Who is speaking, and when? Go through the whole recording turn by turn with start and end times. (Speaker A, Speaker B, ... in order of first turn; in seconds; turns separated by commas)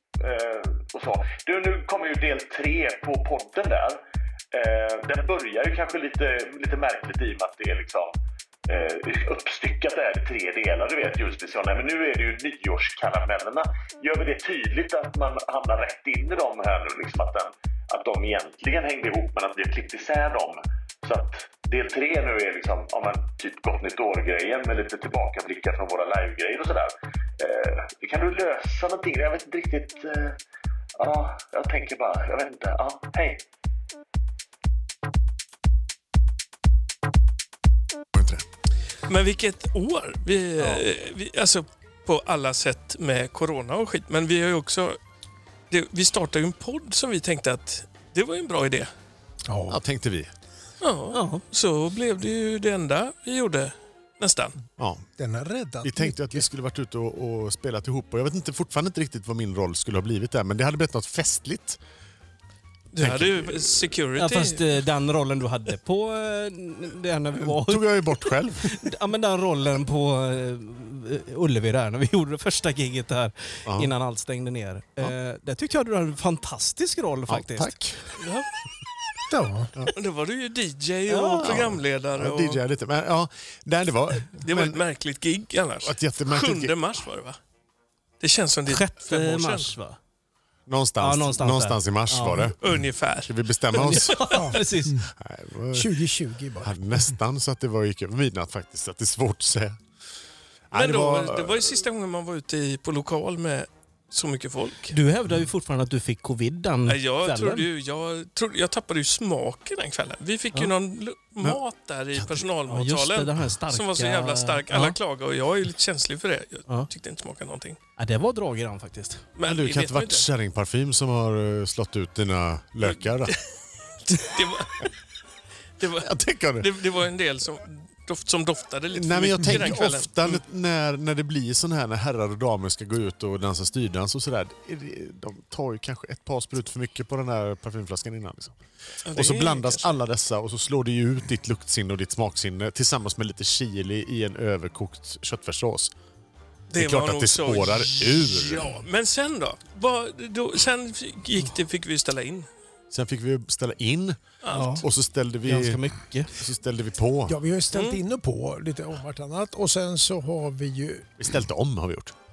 Speaker A: 0.2-4.0, Speaker A: 4.5-8.1, Speaker A: 8.7-30.4, Speaker A: 31.0-33.4, Speaker B: 38.1-38.4, Speaker C: 39.0-45.0, Speaker C: 45.7-48.9, Speaker D: 49.5-49.8, Speaker B: 49.7-50.3, Speaker C: 50.8-54.5, Speaker E: 51.1-51.4, Speaker B: 54.8-55.0, Speaker D: 55.2-56.4, Speaker B: 55.8-61.8, Speaker C: 62.9-64.6, Speaker B: 63.0-63.9, Speaker E: 64.2-77.8, Speaker B: 67.4-68.9, Speaker B: 73.7-73.9, Speaker B: 77.3-78.2, Speaker C: 78.2-78.5, Speaker D: 79.3-79.7, Speaker C: 79.9-82.6, Speaker E: 81.1-81.6, Speaker B: 81.4-84.8, Speaker C: 84.4-87.4, Speaker B: 85.8-86.7, Speaker C: 88.2-89.7, Speaker E: 88.7-90.0, Speaker B: 90.7-94.3, Speaker E: 91.0-92.5, Speaker C: 92.6-93.3, Speaker E: 93.8-95.0, Speaker C: 93.9-94.2, Speaker D: 94.3-95.1, Speaker B: 95.2-96.0, Speaker D: 95.7-96.9, Speaker B: 96.6-99.8, Speaker B: 100.7-101.8, Speaker C: 100.7-105.0, Speaker E: 104.9-107.7, Speaker C: 106.8-117.8, Speaker B: 112.1-112.4, Speaker E: 112.7-115.0, Speaker E: 118.0-119.2, Speaker C: 119.4-120.2, Speaker B: 119.4-123.3, Speaker C: 122.8-123.4, Speaker C: 124.0-124.9, Speaker C: 125.8-130.4, Speaker B: 126.0-126.7, Speaker B: 128.9-145.9, Speaker C: 139.1-139.9, Speaker C: 146.7-152.5, Speaker B: 146.8-148.8, Speaker B: 152.9-155.8, Speaker C: 154.4-154.8, Speaker E: 154.5-154.8, Speaker E: 155.4-156.3, Speaker B: 156.3-157.4, Speaker D: 157.3-161.1, Speaker C: 157.7-158.0, Speaker B: 161.2-162.1